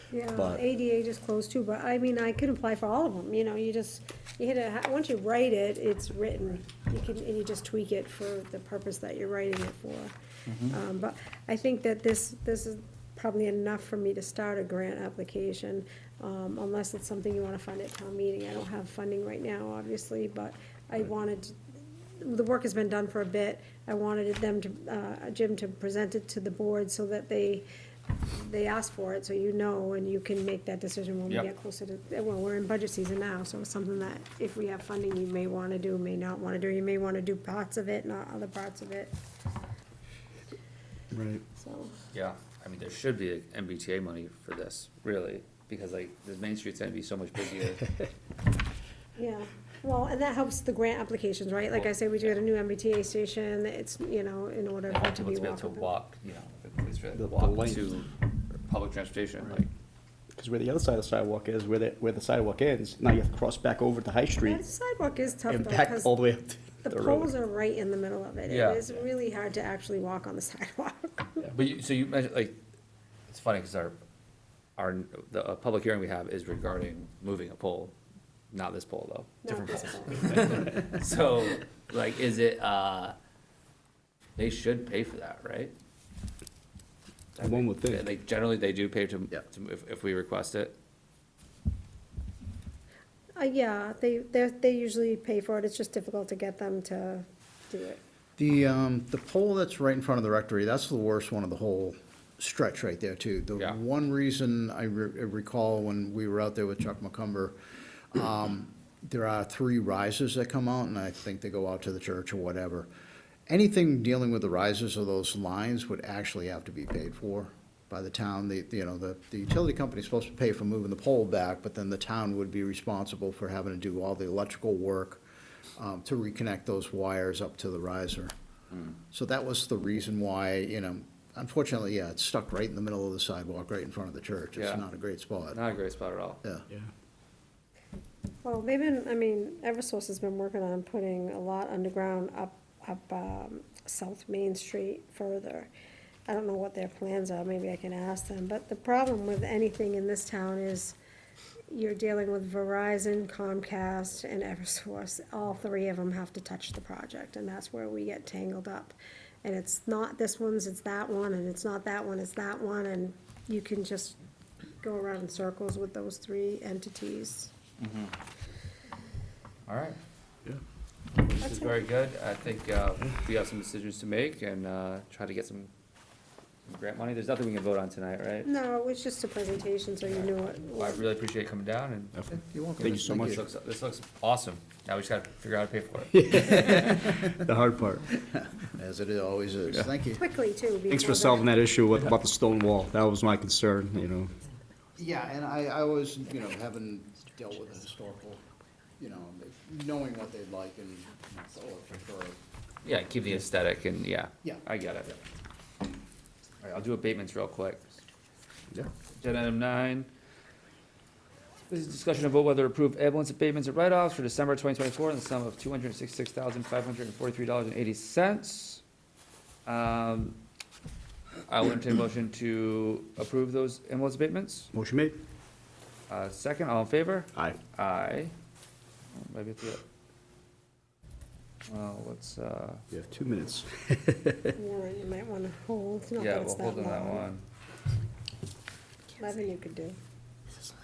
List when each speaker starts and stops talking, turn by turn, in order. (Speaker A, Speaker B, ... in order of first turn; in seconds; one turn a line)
Speaker A: 0.1-10.1
Speaker B: 0.3-0.6
Speaker C: 10.5-10.8
Speaker A: 10.6-21.5
Speaker A: 22.2-39.1
Speaker B: 41.1-41.4
Speaker A: 41.5-41.9
Speaker C: 42.1-47.9
Speaker A: 49.2-55.9
Speaker C: 54.9-59.7
Speaker B: 57.1-57.9
Speaker B: 60.4-64.6
Speaker A: 64.4-66.1
Speaker B: 65.5-67.3
Speaker A: 66.8-71.5
Speaker C: 68.5-68.8
Speaker C: 71.4-72.6
Speaker C: 73.3-74.0
Speaker C: 74.8-77.9
Speaker C: 78.5-83.2
Speaker A: 79.4-80.4
Speaker C: 84.4-85.7
Speaker C: 87.3-90.8
Speaker B: 87.4-88.0
Speaker A: 93.3-98.0
Speaker D: 98.4-107.5
Speaker D: 108.1-112.9
Speaker D: 113.5-125.2
Speaker D: 125.8-128.3
Speaker D: 129.1-135.6
Speaker C: 134.6-134.8
Speaker C: 135.5-136.4
Speaker A: 138.4-145.7
Speaker A: 146.3-150.9
Speaker A: 151.7-164.2
Speaker A: 164.8-167.5
Speaker C: 167.8-168.1
Speaker C: 169.7-170.0
Speaker C: 171.2-175.7
Speaker A: 171.4-171.8
Speaker C: 176.7-178.5
Speaker A: 178.4-181.0
Speaker C: 180.8-186.8
Speaker D: 182.5-183.4
Speaker B: 182.8-183.4
Speaker B: 186.1-188.1
Speaker D: 188.3-190.2
Speaker A: 190.2-191.6
Speaker B: 190.9-194.3
Speaker D: 194.9-198.4
Speaker D: 199.0-202.4
Speaker C: 202.8-205.1
Speaker C: 206.6-208.0
Speaker C: 209.2-210.1
Speaker C: 211.7-218.8
Speaker C: 219.7-220.4
Speaker C: 221.5-224.7
Speaker B: 224.7-225.2
Speaker C: 226.1-228.3
Speaker C: 229.1-229.8
Speaker C: 231.7-232.8
Speaker B: 232.9-234.6
Speaker A: 234.6-237.3
Speaker C: 236.2-237.4
Speaker A: 239.2-240.0